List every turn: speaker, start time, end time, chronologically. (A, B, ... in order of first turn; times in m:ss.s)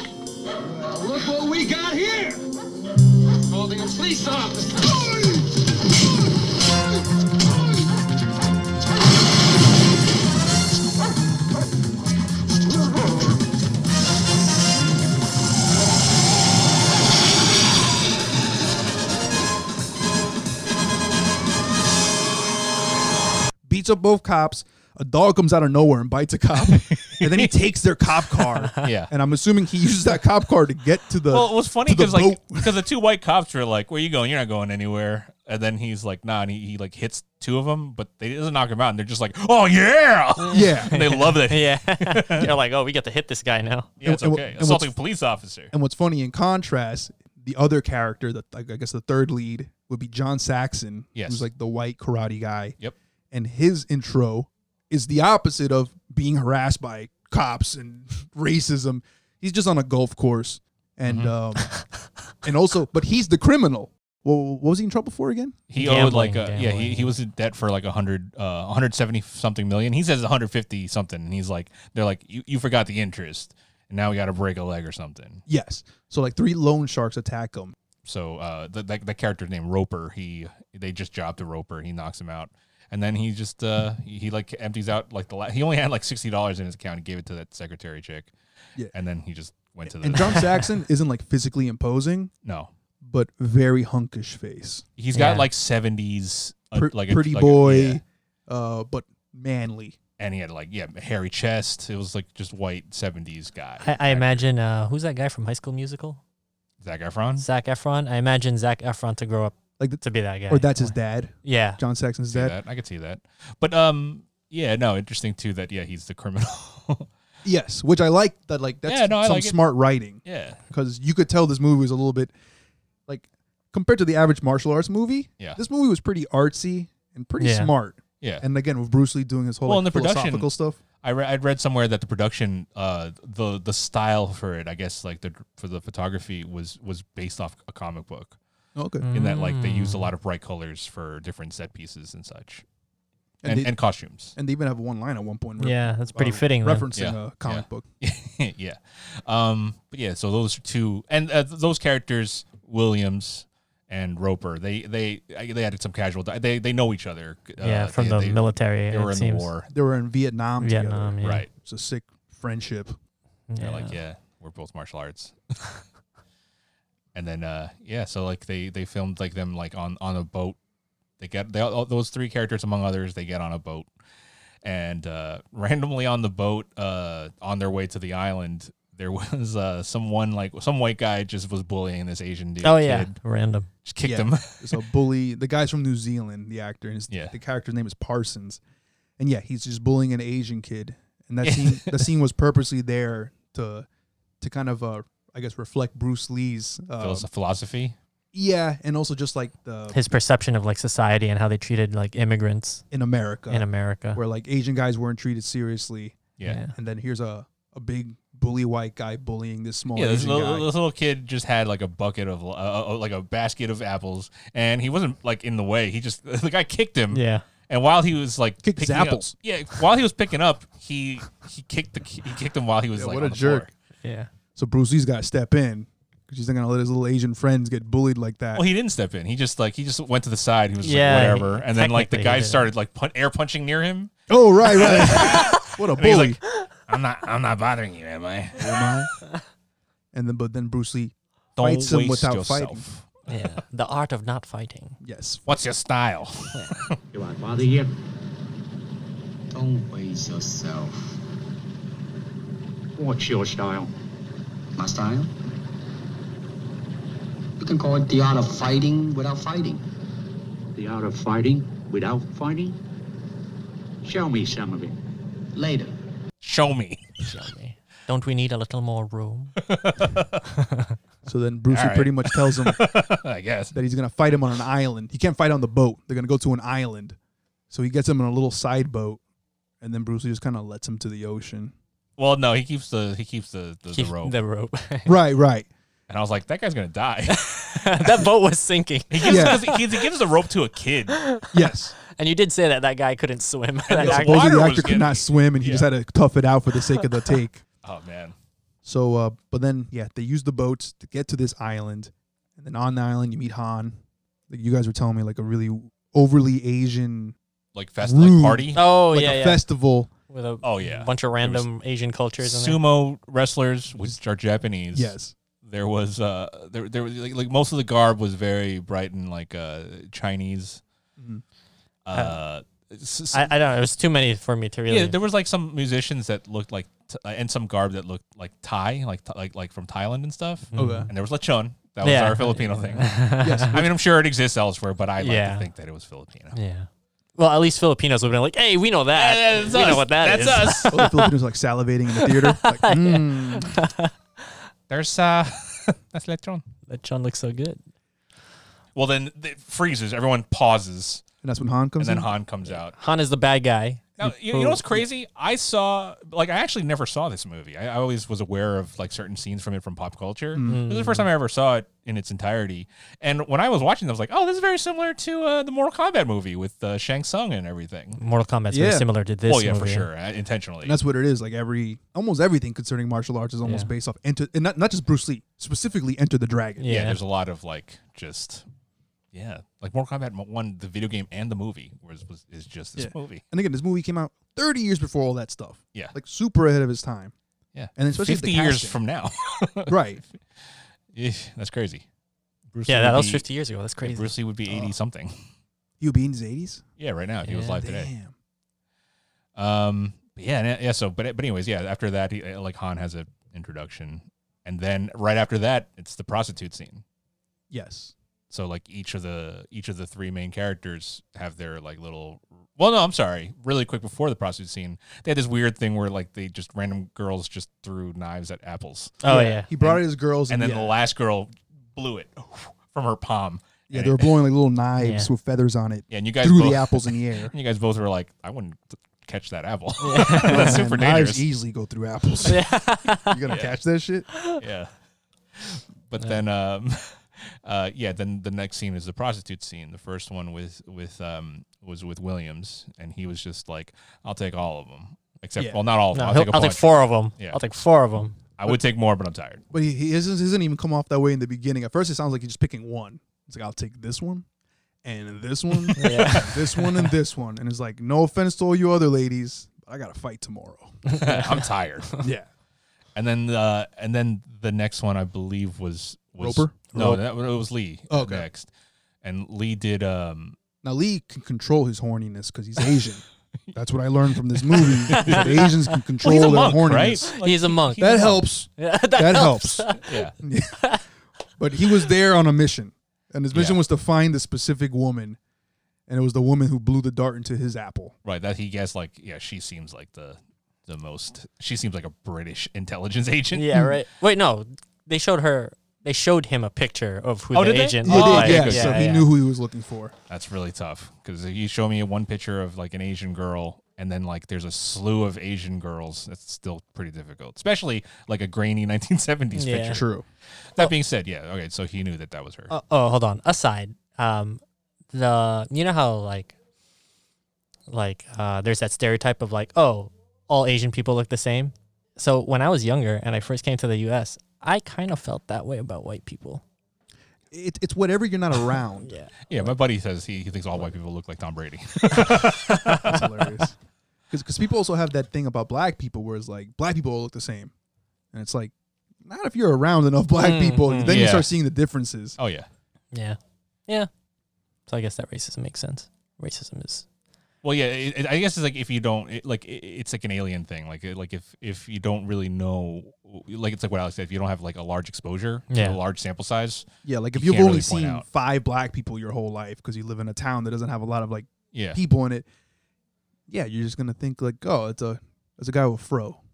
0:00.5-0:02.5 A
0:03.4-0:05.6 A
0:23.7-0:32.8 B
0:26.6-0:29.1 C
0:31.3-0:42.5 C
0:40.4-0:43.9 D
0:40.5-0:41.0 B
0:44.0-0:45.7 C
0:44.0-0:44.9 B
0:45.7-0:52.8 B
0:51.2-0:51.5 C
0:53.3-1:01.7 B
1:01.0-1:01.3 C
1:02.4-1:05.6 B
1:05.7-1:15.4 C
1:05.8-1:07.1 D
1:15.5-1:17.8 B
1:18.0-1:28.3 C
1:28.9-1:30.6 C
1:29.9-1:32.3 B
1:32.4-1:32.7 C
1:33.0-1:34.8 B
1:35.0-1:38.0 C
1:35.1-1:35.5 D
1:36.8-1:40.0 B
1:40.2-1:44.4 C
1:43.8-1:46.2 D
1:46.8-1:47.5 C
1:47.4-1:51.8 D
1:49.8-1:52.6 B
1:52.3-1:57.1 C
1:57.4-2:02.3 B
1:58.9-1:59.7 C
2:00.2-2:00.6 C
2:03.1-2:10.8 B
2:07.4-2:07.7 D
2:08.2-2:08.5 C
2:09.7-2:10.5 C
2:11.0-2:18.4 C
2:18.8-2:19.1 B
2:19.0-2:20.1 D
2:19.1-2:22.6 C
2:23.4-2:23.7 B
2:23.4-2:24.4 C
2:24.4-2:27.8 B
2:25.6-2:26.9 D
2:27.0-2:39.7 C
2:37.6-2:39.5 D
2:39.7-2:43.0 B
2:40.6-2:41.5 D
2:41.2-2:41.5 C
2:43.5-2:44.0 D
2:43.6-2:45.4 C
2:47.1-2:50.6 C
2:51.2-2:53.9 C
2:54.6-3:03.1 C
3:02.6-3:03.7 D
3:03.8-3:04.8 C
3:04.0-3:08.6 B
3:09.2-3:13.9 B
3:11.4-3:12.1 C
3:14.4-3:17.3 B
3:17.0-3:18.0 C
3:18.3-3:20.0 B
3:19.9-3:22.8 D
3:22.9-3:26.2 B
3:23.5-3:24.2 D
3:26.4-3:26.8 D
3:26.7-3:30.7 B
3:30.0-3:43.7 C
3:37.1-3:37.5 D
3:38.6-3:39.4 B
3:43.0-3:43.7 B
3:44.0-3:44.3 D
3:44.6-3:48.7 B
3:48.6-3:54.1 C
3:50.8-3:52.7 D
3:54.3-3:56.4 B
3:54.6-3:58.9 C
3:58.6-3:59.1 B
4:00.1-4:02.8 B
4:01.6-4:03.4 C
4:03.3-4:05.0 D
4:05.0-4:05.5 B
4:05.5-4:07.0 C
4:06.5-4:06.8 D
4:07.1-4:07.9 E
4:09.5-4:11.1 F
4:13.0-4:13.9 E
4:14.8-4:15.3 F
4:17.6-4:19.8 F
4:20.8-4:22.8 E
4:24.0-4:25.0 E
4:25.5-4:25.9 F
4:26.4-4:27.1 C
4:27.2-4:29.6 D
4:29.6-4:30.4 C
4:30.6-4:31.0 D
4:31.2-4:32.8 B
4:31.7-4:33.7 C
4:33.7-4:37.2 B
4:37.7-4:39.2 B
4:39.8-4:41.8 B
4:42.2-4:44.4 C
4:43.9-4:45.2 D
4:45.1-4:45.7 B
4:46.1-4:48.3 C
4:47.3-4:50.0 D
4:49.1-4:51.2 C
4:49.2-4:49.7 B
4:51.1-4:51.5 D
4:51.5-4:52.0 B
4:52.1-4:54.5 D
4:53.9-4:55.9 C
4:54.0-4:57.6 B
4:57.8-4:58.4 C
4:58.8-5:04.0 B
5:04.5-5:07.4 B
5:07.8-5:08.8 C
5:08.0-5:10.1 B
5:08.8-5:09.6 D
5:10.3-5:12.8 D
5:10.6-5:11.7 C
5:12.4-5:20.8 C
5:14.9-5:15.4 B
5:21.2-5:21.4 B
5:22.0-5:23.6 C
5:23.3-5:25.2 D
5:24.9-5:33.2 C
5:30.7-5:31.1 D
5:30.8-5:31.1 B
5:32.0-5:33.8 D
5:33.4-5:33.9 B
5:33.7-5:36.6 C
5:35.2-5:35.7 D
5:36.5-5:41.3 D
5:39.2-5:41.0 C
5:40.9-5:43.8 B
5:42.2-5:44.6 D
5:44.9-5:46.6 C
5:46.9-5:47.8 D
5:49.0-5:51.2 C
5:51.4-5:52.3 B
5:52.0-5:53.0 C
5:52.7-5:54.0 D
5:54.2-5:55.0 B
5:54.2-6:08.2 C
6:00.6-6:00.8 B
6:00.6-6:01.3 D
6:08.2-6:10.1 D
6:08.7-6:09.1 B
6:09.5-6:11.0 C
6:10.8-6:17.0 B
6:13.6-6:13.9 D
6:16.8-6:17.2 D
6:16.9-6:18.7 C
6:19.3-6:23.4 C
6:23.0-6:27.4 B
6:27.8-6:30.0 C
6:28.0-6:29.0 B
6:29.9-6:30.2 B
6:31.1-6:32.0 C
6:32.7-6:33.4 C
6:32.9-6:34.3 D
6:34.0-6:35.4 C
6:34.7-6:34.9 B
6:36.0-6:36.8 B
6:37.0-6:38.1 C
6:37.4-6:37.8 D
6:37.8-6:38.3 B
6:39.6-6:47.0 C
6:47.7-6:48.1 B
6:48.5-6:59.2 C
6:59.2-6:59.7 D
6:59.2-7:00.9 B
6:59.8-7:04.4 C
7:03.9-7:07.5 B
7:05.0-7:05.3 D
7:06.1-7:11.4 C
7:10.0-7:10.8 D
7:10.4-7:12.6 B
7:12.4-7:13.4 D
7:13.2-7:14.3 B
7:13.5-7:13.8 C
7:14.6-7:14.9 C
7:15.5-7:27.6 C
7:26.1-7:28.4 D
7:28.6-7:29.6 C
7:29.7-7:34.5 B
7:35.0-7:41.0 B
7:36.0-7:37.1 D
7:41.1-7:41.6 D
7:41.1-7:42.2 C
7:42.2-7:42.5 B
7:43.2-7:48.7 C
7:46.4-7:47.2 B
7:48.1-7:48.5 B
7:49.2-7:50.6 C
7:50.8-7:57.3 B
7:54.7-7:58.4 C
7:55.1-7:55.7 D
7:57.4-8:00.2 D
7:58.0-8:00.8 B
8:00.0-8:00.4 C
8:01.6-8:05.4 B
8:03.5-8:03.8 C
8:06.1-8:08.2 B
8:08.2-8:13.9 C
8:13.5-8:19.3 D
8:17.5-8:19.2 C
8:18.0-8:20.1 B
8:20.3-8:30.0 C
8:29.5-8:30.0 D
8:29.9-8:30.3 B
8:30.7-8:32.7 C
8:32.7-8:34.6 D
8:35.1-8:36.6 D
8:37.9-8:46.6 D
8:47.5-8:49.7 B
8:49.0-8:49.3 D
8:49.5-8:53.2 C
8:52.4-8:53.2 D
8:53.0-8:53.8 B
8:54.3-8:57.7 B
8:58.3-9:02.4 B
9:00.4-9:01.2 D
9:01.1-9:01.5 C
9:02.4-9:02.7 C
9:03.1-9:04.1 D
9:04.9-9:07.1 D
9:07.6-9:18.2 C
9:15.7-9:16.0 D
9:17.0-9:22.5 B
9:21.7-9:22.0 C
9:23.5-9:26.4 B